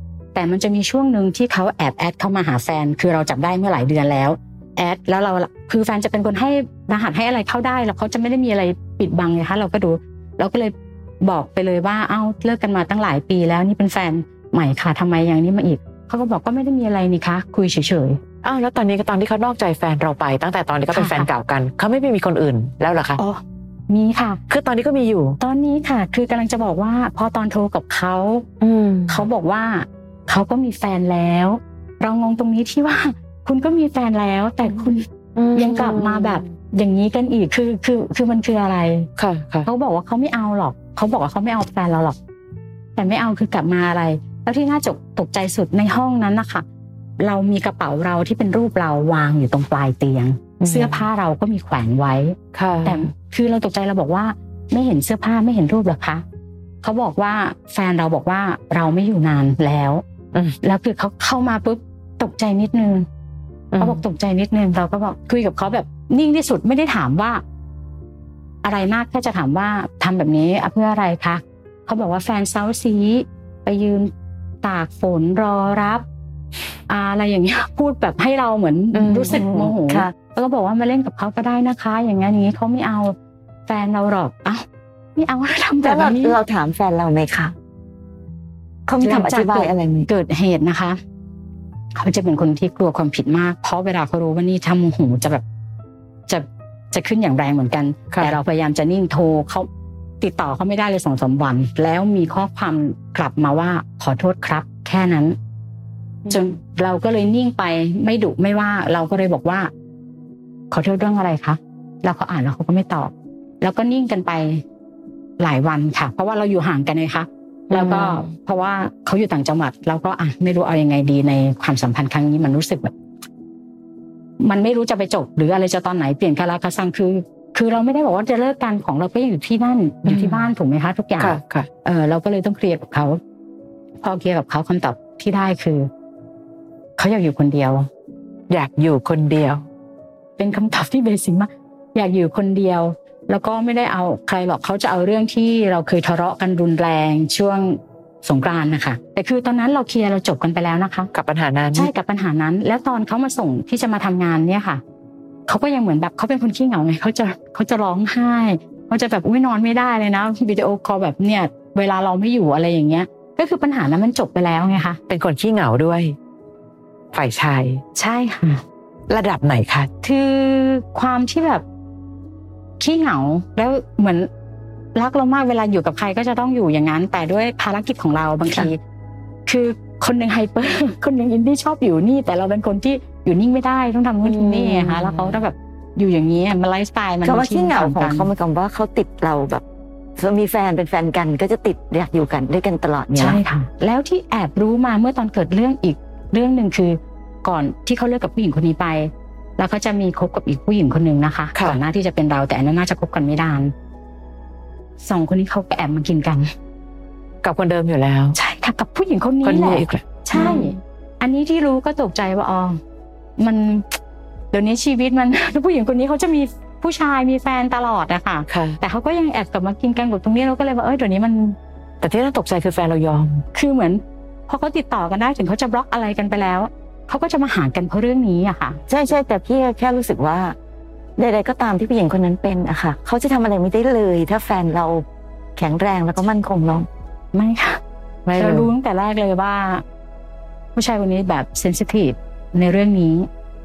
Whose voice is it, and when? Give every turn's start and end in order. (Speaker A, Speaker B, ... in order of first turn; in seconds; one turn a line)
Speaker A: 0.3-18.2
Speaker B: 18.4-23.2
Speaker A: 20.9-21.3
Speaker A: 23.2-24.4
Speaker B: 24.5-25.4
Speaker A: 25.4-28.4
Speaker B: 28.6-29.2
Speaker A: 29.1-39.1
Speaker B: 35.4-36.4
Speaker B: 39.2-39.7
Speaker A: 39.6-42.2
Speaker A: 43.0-46.6
Speaker A: 47.2-56.2
Speaker B: 50.6-51.0
Speaker B: 52.5-53.1
Speaker A: 56.8-60.0
Speaker A: 60.6-63.1
Speaker B: 63.7-64.0
Speaker A: 63.8-67.4
Speaker A: 68.6-76.0
Speaker A: 76.9-83.1
Speaker B: 79.0-79.3
Speaker C: 79.1-80.1
Speaker A: 83.7-84.6
Speaker A: 85.2-86.4
Speaker C: 85.8-87.5
Speaker C: 88.9-90.1
Speaker A: 89.0-91.0
Speaker A: 91.9-95.4
Speaker A: 96.3-99.7
Speaker A: 100.2-105.4
Speaker A: 106.3-109.7
Speaker A: 110.7-114.6
Speaker A: 115.4-122.9
Speaker B: 117.7-118.3
Speaker A: 124.4-133.2
Speaker B: 130.0-130.4
Speaker B: 131.2-131.7
Speaker A: 134.0-135.9
Speaker A: 137.0-137.9
Speaker B: 138.5-139.6
Speaker A: 140.4-151.1
Speaker B: 151.1-151.9
Speaker A: 151.7-154.8
Speaker A: 155.5-165.0
Speaker B: 165.1-166.2
Speaker B: 167.1-167.8
Speaker A: 167.9-168.6
Speaker B: 169.1-169.9
Speaker A: 170.0-171.6
Speaker A: 172.8-174.3
Speaker A: 174.9-178.8
Speaker A: 179.4-188.3
Speaker B: 184.2-185.4
Speaker C: 187.2-189.6
Speaker C: 190.2-193.4
Speaker A: 193.1-203.7
Speaker A: 205.0-206.5
Speaker B: 207.4-208.4
Speaker A: 208.3-212.8
Speaker B: 209.4-210.7
Speaker C: 210.3-210.6
Speaker A: 213.4-213.9
Speaker A: 214.5-221.6
Speaker B: 218.5-218.8
Speaker B: 222.0-223.4
Speaker A: 223.5-228.8
Speaker C: 228.9-230.6
Speaker C: 231.2-235.0
Speaker C: 235.6-236.9
Speaker A: 237.3-237.8
Speaker B: 238.2-238.7
Speaker A: 238.3-239.8
Speaker A: 240.7-243.3